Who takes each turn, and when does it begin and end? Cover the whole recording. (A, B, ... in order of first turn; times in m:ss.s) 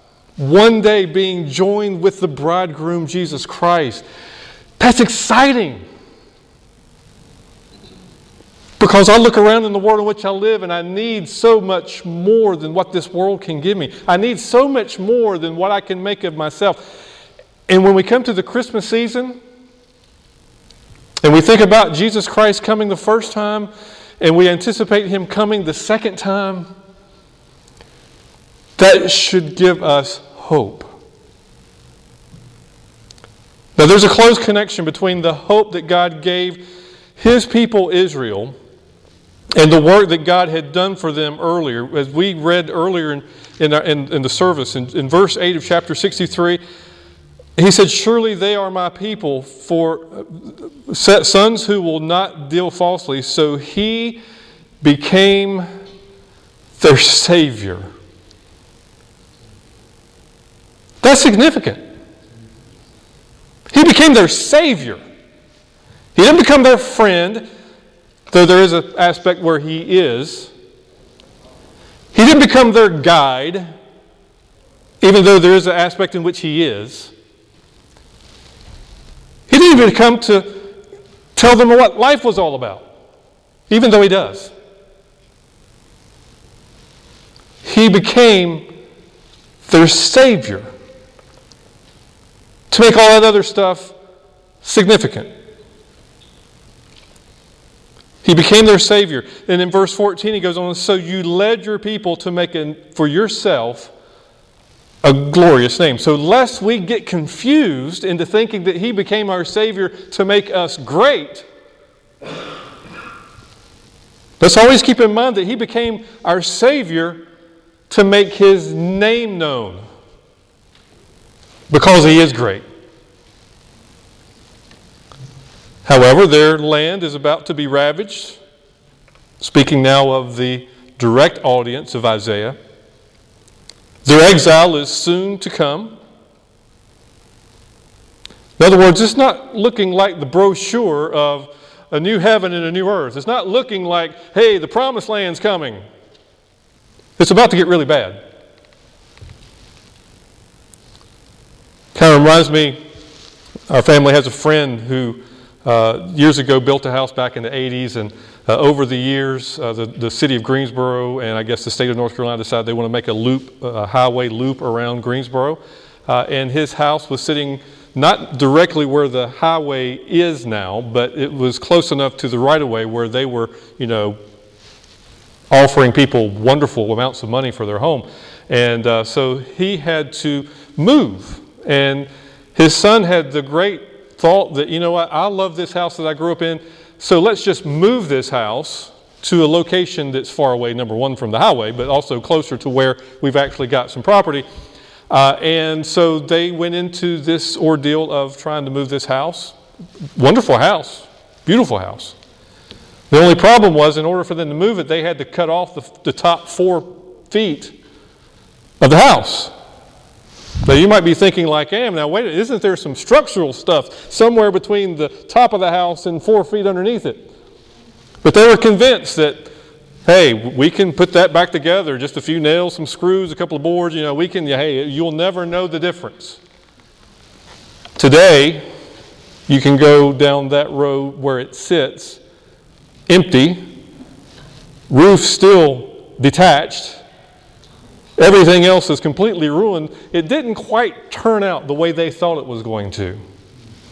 0:00.4-0:04.0 A
0:04.8-0:05.8 A
0:08.8-0:17.0 A
0:17.7-0:19.4 A
0:21.2-0:26.7 A
0:28.8-0:30.9 A
0:33.8-0:38.6 A
0:39.6-0:46.6 A
0:47.6-0:54.2 A
0:54.8-0:55.7 A
0:56.8-0:57.9 A
1:01.0-1:01.8 A
1:03.7-1:05.0 A
1:06.2-1:07.5 A
1:08.3-1:10.5 A
1:12.1-1:13.7 A
1:15.0-1:17.1 A
1:19.5-1:20.7 A
1:21.4-1:22.9 A
1:23.7-1:24.5 A
1:27.6-1:28.7 A
1:29.6-1:30.7 A
1:32.7-1:34.0 A
1:34.6-1:35.3 A
1:38.2-1:43.9 A
1:45.0-1:51.5 A
1:54.4-1:57.2 A
1:57.9-1:59.8 A
2:01.7-2:02.6 A
2:05.8-2:08.4 A
2:09.4-2:12.6 A
2:14.0-2:16.0 A
2:18.6-2:25.8 A
2:27.2-2:28.2 A
2:32.0-2:32.8 A
2:33.7-2:54.2 A
2:55.5-3:14.4 A
3:15.1-3:19.6 A
3:20.2-3:22.2 A
3:23.1-3:27.8 A
3:28.8-3:29.5 A
3:30.6-3:37.3 A
3:38.2-3:39.5 A
3:40.0-3:46.4 A
3:48.0-3:48.6 A
3:49.5-3:52.2 A
3:53.1-3:53.6 A
3:54.9-3:57.0 A
3:58.2-4:03.2 A